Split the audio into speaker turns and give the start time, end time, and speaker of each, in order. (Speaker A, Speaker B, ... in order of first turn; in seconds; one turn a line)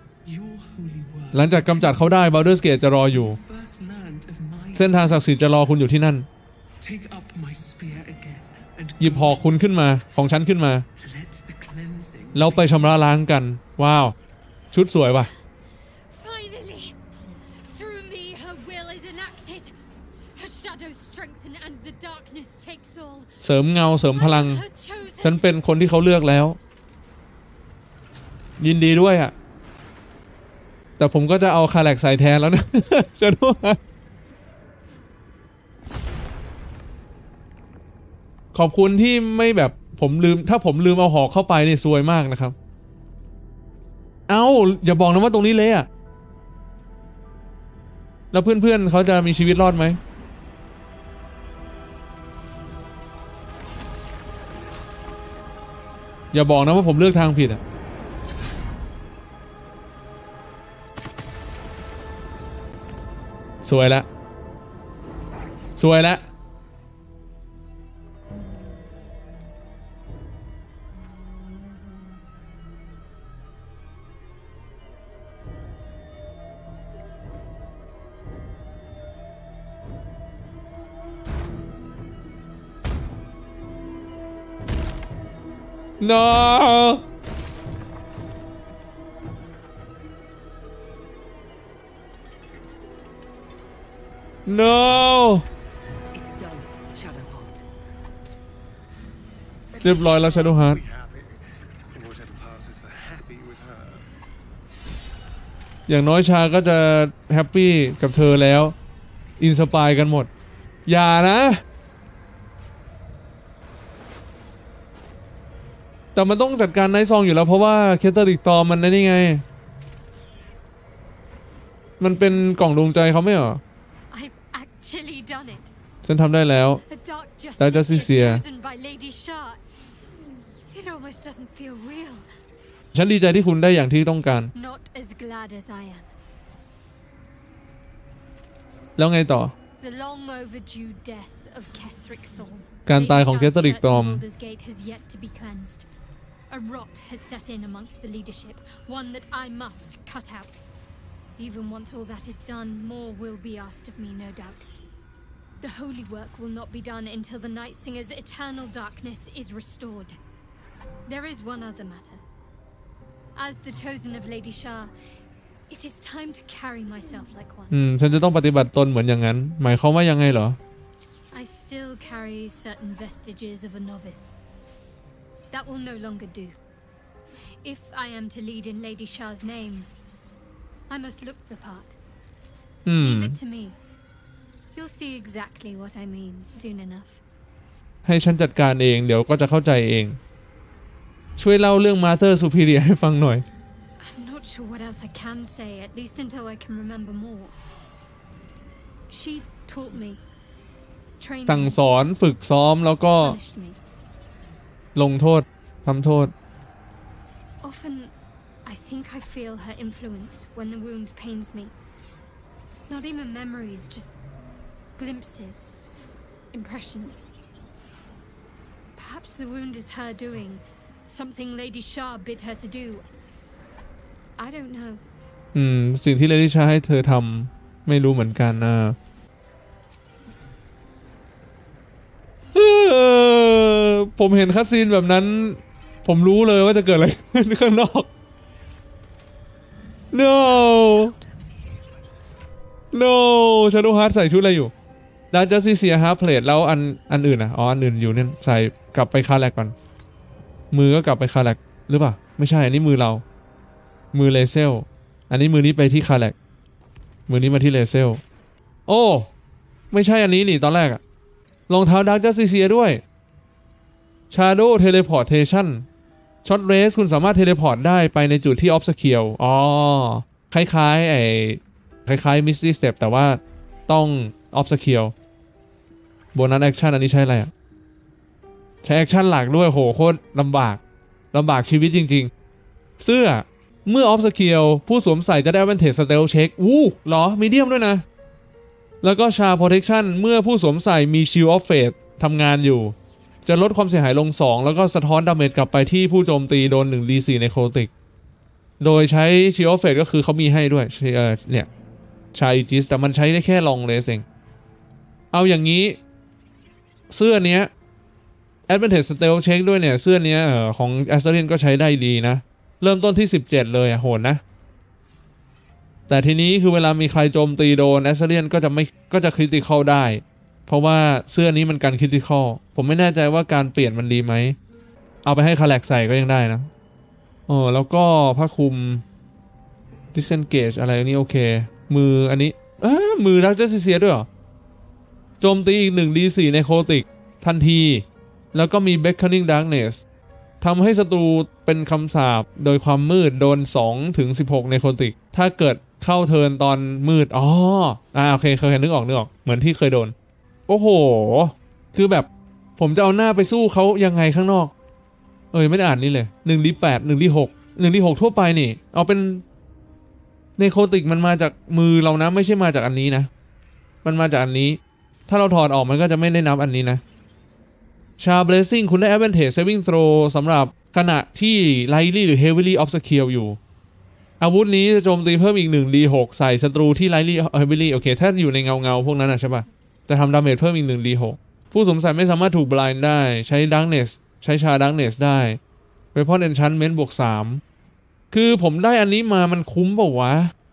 Speaker A: 0.2-5.9
Speaker B: 1.3-3.4
Speaker B: 4.7-6.3
Speaker A: 6.8-9.6
Speaker B: 9.0-10.8
Speaker A: 11.0-13.1
Speaker B: 12.3-14.1
Speaker B: 14.7-15.3
Speaker C: 15.7-19.8
Speaker C: 20.3-23.4
Speaker B: 23.4-24.6
Speaker C: 24.1-25.4
Speaker B: 25.2-26.6
Speaker B: 28.6-29.3
Speaker B: 31.0-33.8
Speaker B: 38.5-42.5
Speaker B: 44.3-45.9
Speaker B: 48.3-50.0
Speaker B: 56.3-57.6
Speaker B: 63.6-64.1
Speaker B: 65.8-66.2
Speaker B: 86.0-87.0
Speaker B: 94.5-95.5
Speaker D: 96.1-97.6
Speaker E: 99.7-104.1
Speaker B: 99.8-100.8
Speaker B: 105.9-108.7
Speaker B: 109.4-110.3
Speaker B: 110.9-111.6
Speaker B: 116.1-119.4
Speaker B: 122.0-123.6
Speaker C: 124.1-125.7
Speaker B: 126.0-126.8
Speaker C: 126.8-129.6
Speaker B: 127.6-128.4
Speaker C: 130.7-132.3
Speaker B: 132.9-134.5
Speaker C: 134.5-136.1
Speaker B: 139.0-139.5
Speaker C: 139.8-145.9
Speaker B: 142.9-144.2
Speaker C: 146.5-150.6
Speaker C: 151.4-154.7
Speaker C: 155.6-160.2
Speaker C: 161.1-162.2
Speaker C: 163.3-164.9
Speaker C: 165.7-167.7
Speaker B: 167.7-170.6
Speaker C: 171.3-174.3
Speaker C: 175.5-176.6
Speaker C: 177.6-179.9
Speaker C: 180.9-182.0
Speaker B: 182.8-183.4
Speaker C: 183.0-183.8
Speaker C: 184.7-187.2
Speaker B: 188.0-190.2
Speaker B: 191.4-193.4
Speaker C: 194.0-197.5
Speaker C: 199.1-200.2
Speaker C: 201.2-201.8
Speaker B: 201.4-203.4
Speaker C: 203.2-203.8
Speaker B: 204.9-206.3
Speaker C: 207.6-208.1
Speaker C: 208.6-211.7
Speaker C: 212.9-214.1
Speaker C: 215.0-215.9
Speaker C: 216.5-217.2
Speaker C: 218.9-223.0
Speaker C: 224.4-225.0
Speaker B: 225.5-229.0
Speaker B: 232.5-238.1
Speaker B: 240.1-241.1
Speaker D: 240.6-241.9
Speaker B: 242.9-244.7
Speaker B: 245.3-249.7
Speaker B: 250.7-253.2
Speaker B: 254.1-256.3
Speaker B: 257.3-258.2
Speaker B: 258.9-259.3
Speaker B: 259.9-261.0
Speaker B: 261.7-263.0
Speaker B: 264.3-265.9
Speaker B: 266.4-275.1
Speaker B: 276.3-277.5
Speaker B: 278.8-280.8
Speaker B: 281.3-282.3
Speaker B: 283.0-288.0
Speaker B: 289.0-297.9
Speaker B: 298.8-301.7
Speaker B: 302.3-304.2
Speaker B: 305.3-306.0
Speaker B: 307.1-307.7
Speaker B: 308.7-314.4
Speaker B: 316.1-324.6
Speaker B: 325.2-326.7
Speaker B: 327.5-329.0
Speaker B: 330.1-334.3
Speaker B: 335.4-340.0
Speaker B: 340.6-350.1
Speaker B: 350.7-354.7
Speaker B: 355.5-359.4
Speaker B: 360.6-363.3
Speaker B: 364.0-367.0
Speaker B: 368.2-373.6
Speaker B: 374.4-385.6
Speaker B: 386.1-387.6
Speaker B: 388.3-390.5